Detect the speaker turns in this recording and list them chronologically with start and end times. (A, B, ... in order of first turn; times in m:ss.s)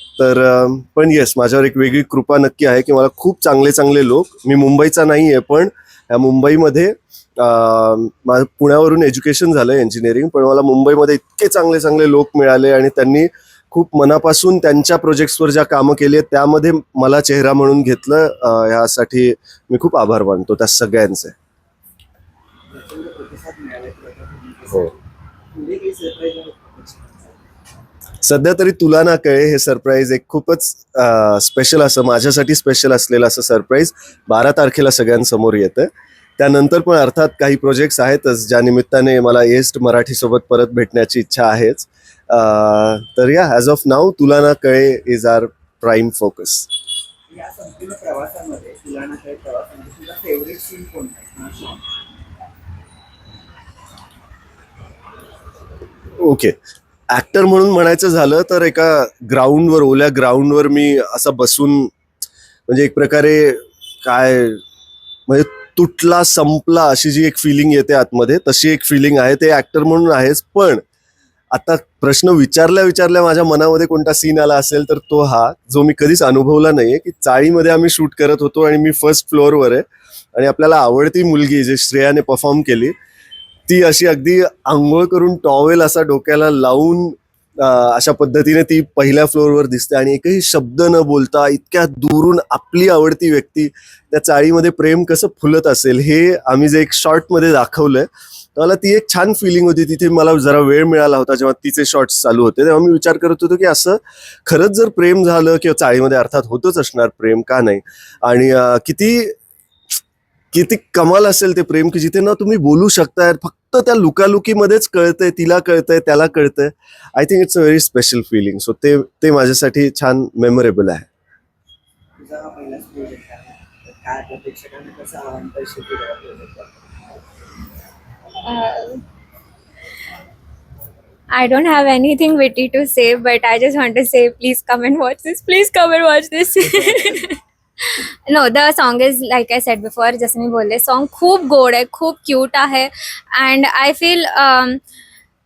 0:00.2-0:21.3 A
0:22.7-0:27.4 B
0:28.2-0:46.7 A
0:47.3-0:51.9 B
0:56.2-0:56.5 A
0:57.1-1:01.9 A
1:02.7-1:04.6 A
1:05.3-1:10.8 A
1:11.5-1:22.9 A
1:23.7-1:49.4 A
1:50.5-2:01.1 A
2:02.2-2:06.7 B
2:08.4-2:09.0 C
2:11.3-2:24.8 C